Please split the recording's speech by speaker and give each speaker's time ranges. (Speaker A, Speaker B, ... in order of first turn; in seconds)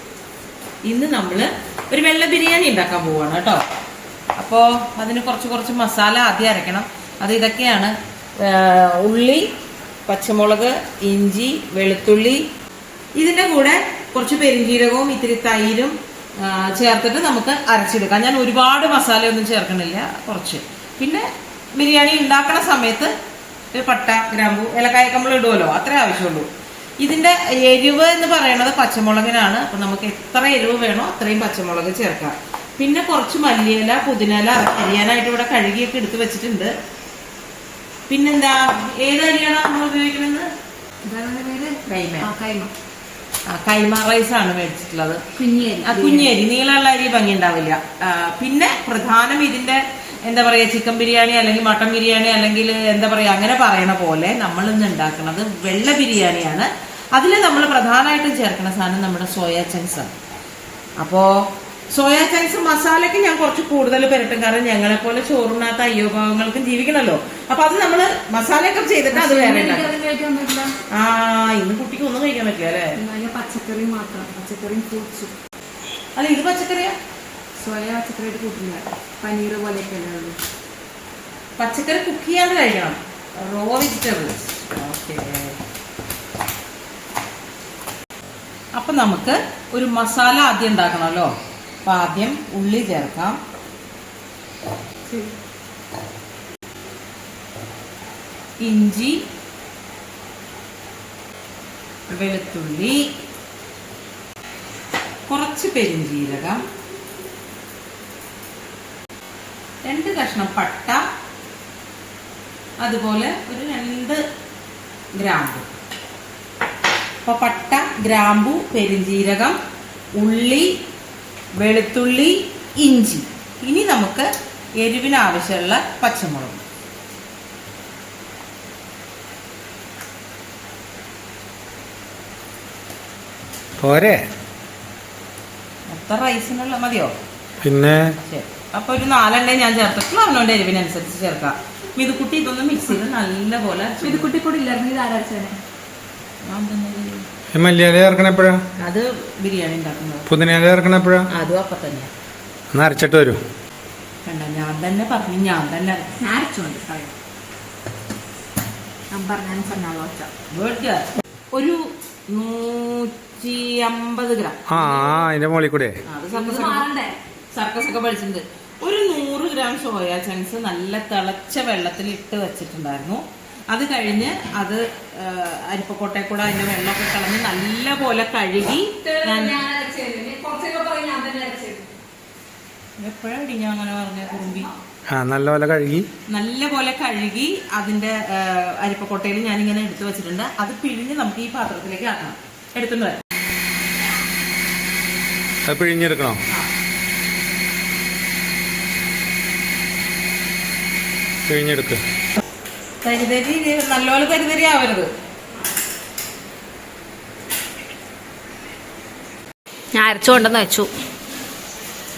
Speaker A: 0.8-3.6, 4.4-9.5, 10.1-12.4, 13.2-23.1, 23.7-26.5, 27.0-36.7, 38.1-40.5, 41.9-42.3, 43.5-45.2, 45.8-60.1, 61.0-69.9, 70.9-73.0, 76.1-77.0, 81.6-85.6, 88.7-91.3, 91.8-93.4, 98.6-99.2, 102.1-103.0, 105.3-106.6, 109.8-111.0, 112.8-114.2, 115.1-115.7, 117.2-119.6, 120.2-120.7, 121.6-124.3, 124.8-126.6, 135.9-137.1, 138.2-144.3, 146.5-147.2, 148.8-150.3, 151.3-152.1, 154.2-156.1, 160.5-165.2, 166.1-166.8, 167.5-179.6, 183.0-184.7, 186.3-193.2, 203.0-205.1
Speaker B: 41.0-42.7, 45.3-46.3, 69.1-70.7, 73.0-75.3, 77.6-80.4, 144.0-145.6, 156.2-157.1, 159.1-160.3, 166.3-167.2, 179.0-181.8, 209.9-210.9
Speaker C: 133.8-134.3, 137.6-138.2, 147.5-148.6, 150.3-151.3, 152.7-153.4, 164.7-166.0, 185.1-186.1, 195.7-196.4, 201.5-202.0